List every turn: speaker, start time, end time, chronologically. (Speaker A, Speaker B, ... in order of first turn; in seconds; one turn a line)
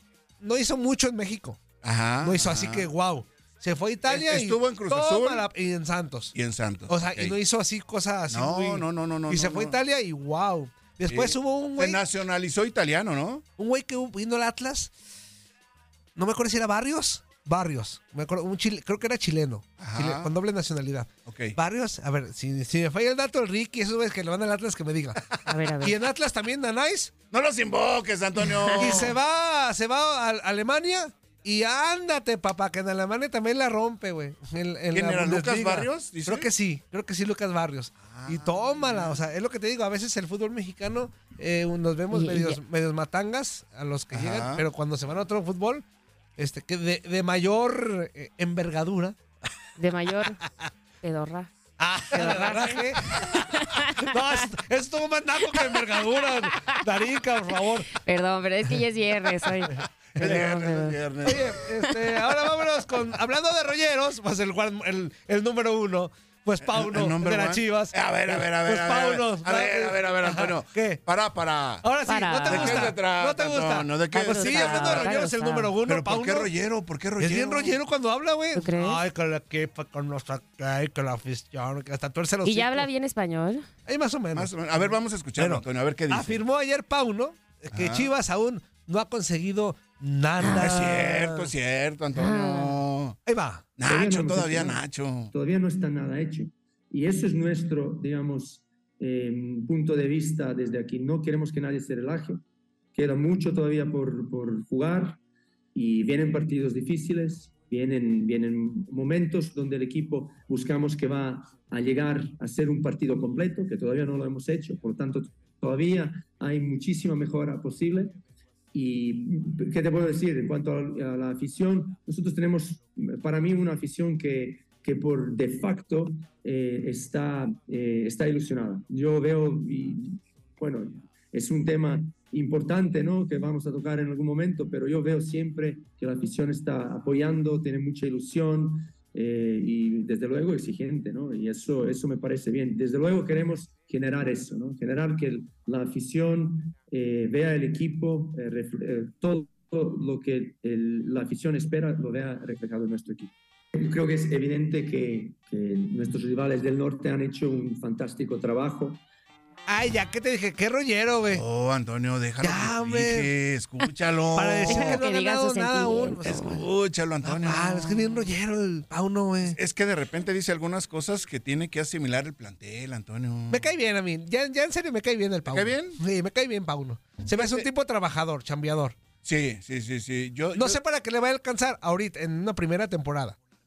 Speaker A: 0.4-1.6
Speaker B: 1.8-2.9
Speaker A: 2.2-6.3
Speaker B: 4.1-5.5
Speaker B: 6.3-7.3
Speaker A: 6.9-12.0
Speaker B: 8.3-9.8
Speaker B: 11.1-13.4
Speaker A: 13.6-14.9
Speaker A: 16.2-25.3
Speaker B: 19.8-20.3
Speaker B: 21.3-21.6
Speaker C: 25.5-25.9
Speaker A: 25.8-27.1
Speaker B: 27.3-29.1
Speaker C: 28.6-29.0
Speaker A: 28.8-45.9
Speaker B: 34.9-36.5
Speaker B: 38.1-39.2
Speaker C: 42.1-42.6
Speaker B: 44.1-44.6
Speaker A: 46.4-49.2
Speaker C: 49.8-50.4
Speaker C: 51.0-51.5
Speaker A: 51.8-57.9
Speaker C: 52.1-54.0
Speaker C: 57.9-61.0
Speaker B: 60.2-61.4
Speaker A: 61.2-71.0
Speaker B: 66.6-71.9
Speaker A: 71.8-76.5
Speaker C: 72.1-72.9
Speaker B: 72.5-75.2
Speaker C: 74.1-75.7
Speaker B: 75.8-77.8
Speaker A: 77.2-82.9
Speaker C: 78.5-79.0
Speaker C: 82.4-83.7
Speaker A: 83.9-91.5
Speaker B: 84.3-86.4
Speaker B: 87.7-88.1
Speaker B: 90.4-93.2
Speaker C: 90.4-90.7
Speaker C: 92.1-92.8
Speaker A: 93.3-93.7
Speaker B: 93.8-95.3
Speaker D: 93.8-94.8
Speaker D: 95.3-102.4
Speaker D: 102.9-105.2
Speaker D: 105.8-118.2
Speaker D: 118.7-159.0
Speaker A: 159.7-161.4
Speaker B: 161.3-165.0
Speaker A: 162.4-163.3
Speaker A: 164.3-166.4
Speaker C: 164.7-166.6
Speaker B: 166.2-168.3
Speaker A: 167.2-169.6
Speaker B: 169.5-173.7
Speaker A: 173.5-179.0
Speaker B: 175.5-176.0
Speaker B: 177.3-177.7
Speaker B: 179.2-180.8
Speaker A: 180.6-183.4